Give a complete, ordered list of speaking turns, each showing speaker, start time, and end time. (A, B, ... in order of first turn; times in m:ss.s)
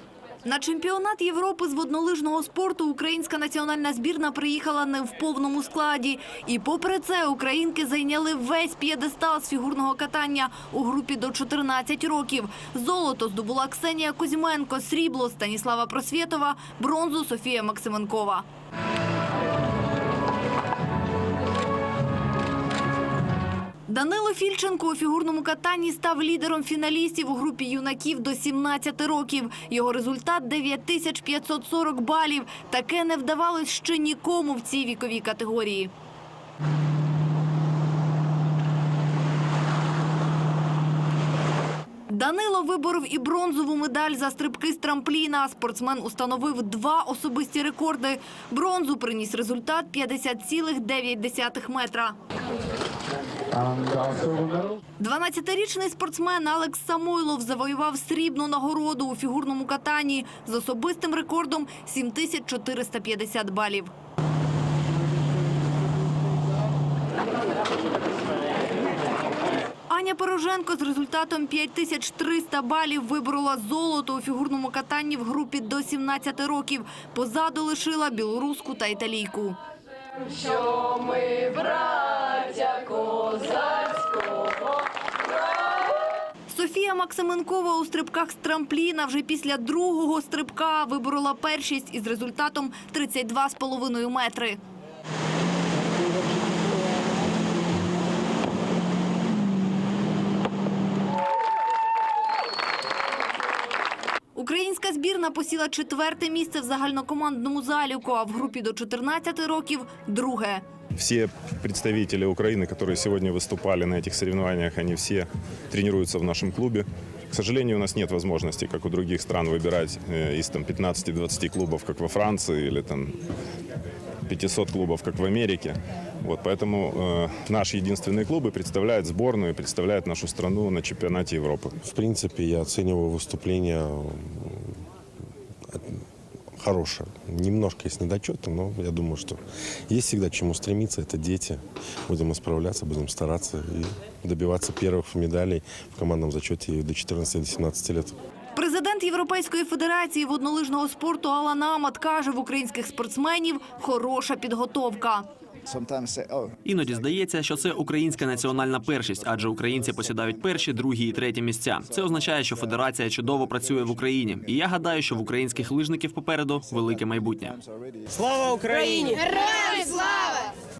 0:00.4-0:18.4 A
0:23.9-0:35.9 A
0:42.1-0:52.2 A
0:53.9-0:54.3 A
0:55.0-1:03.9 A
1:09.9-1:19.6 A
1:20.5-1:24.2 A
1:26.5-1:34.6 A
1:44.4-1:50.6 A
1:51.0-2:03.2 B
2:04.3-2:11.8 B
2:11.8-2:14.6 C
2:15.7-2:15.9 C
2:16.6-2:28.2 C
2:28.6-2:35.3 A
2:35.7-2:36.5 D
2:36.6-2:47.6 E
2:38.0-2:40.8 D
2:41.8-2:42.8 D
2:43.5-2:45.4 D
2:46.8-2:47.6 D
2:48.3-2:49.3 E
2:49.4-2:50.0 A